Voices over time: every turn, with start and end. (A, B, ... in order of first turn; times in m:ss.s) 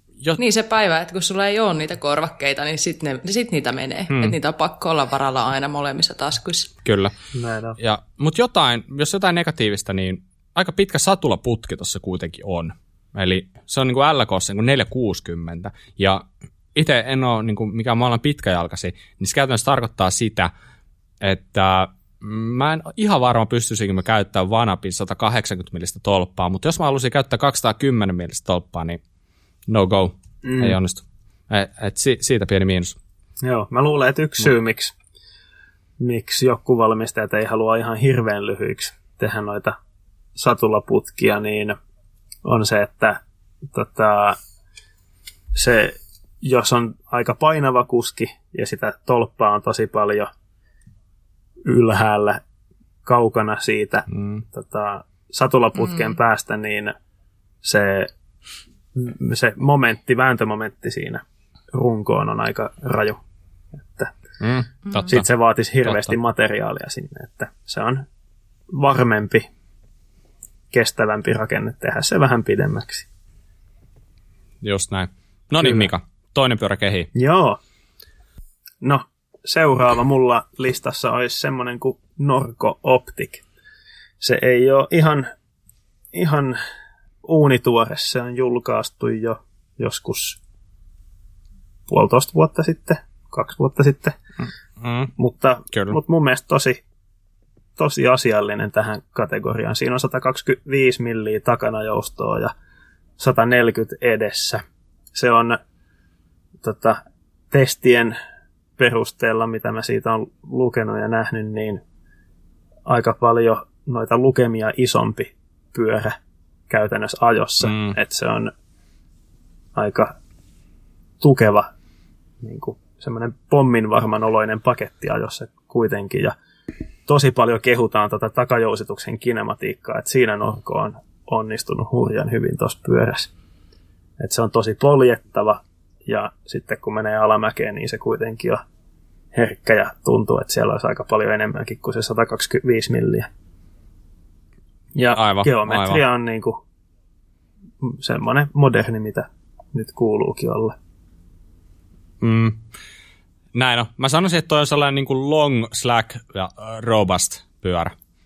0:00.4-0:06.7 A
0:06.8-0:07.1 B
0:07.3-0:07.8 C
0:07.8-0:20.5 B
0:21.2-0:29.0 B
0:29.7-0:33.0 B
0:30.4-0:30.8 C
0:33.4-0:34.9 C
0:36.0-0:39.8 C
0:40.4-0:41.8 C
0:42.4-0:43.2 C
0:43.7-0:44.4 C
0:45.6-0:50.3 C
0:51.6-0:52.4 C
0:53.0-0:56.9 C
0:54.1-0:54.4 B
0:57.6-0:58.1 C
0:59.0-1:03.2 C
1:03.8-1:04.1 C
1:04.4-1:05.3 B
1:05.1-1:08.0 C
1:05.8-1:06.2 B
1:08.7-1:09.4 C
1:10.7-1:13.1 C
1:14.6-1:17.1 B
1:15.6-1:15.9 C
1:17.1-1:17.6 C
1:18.8-1:23.4 C
1:24.2-1:25.3 C
1:26.1-1:26.6 C
1:27.2-1:30.4 C
1:31.9-1:34.2 C
1:34.4-1:35.1 B
1:35.2-1:36.8 C
1:35.7-1:36.0 B
1:37.8-1:42.5 C
1:43.2-1:44.6 C
1:45.1-1:45.6 C
1:46.6-1:47.0 C
1:47.5-1:48.2 C
1:48.8-1:51.8 C
1:52.9-1:56.2 C
1:56.7-1:58.5 C
1:57.6-1:58.0 B
1:59.8-2:00.1 C
2:01.2-2:01.7 C
2:02.4-2:06.3 C
2:07.1-2:13.3 C
2:14.2-2:18.6 C
2:19.3-2:23.3 C
2:25.0-2:26.6 C
2:25.1-2:26.0 B
2:27.8-2:30.8 C
2:32.2-2:32.6 B
2:33.5-2:37.9 B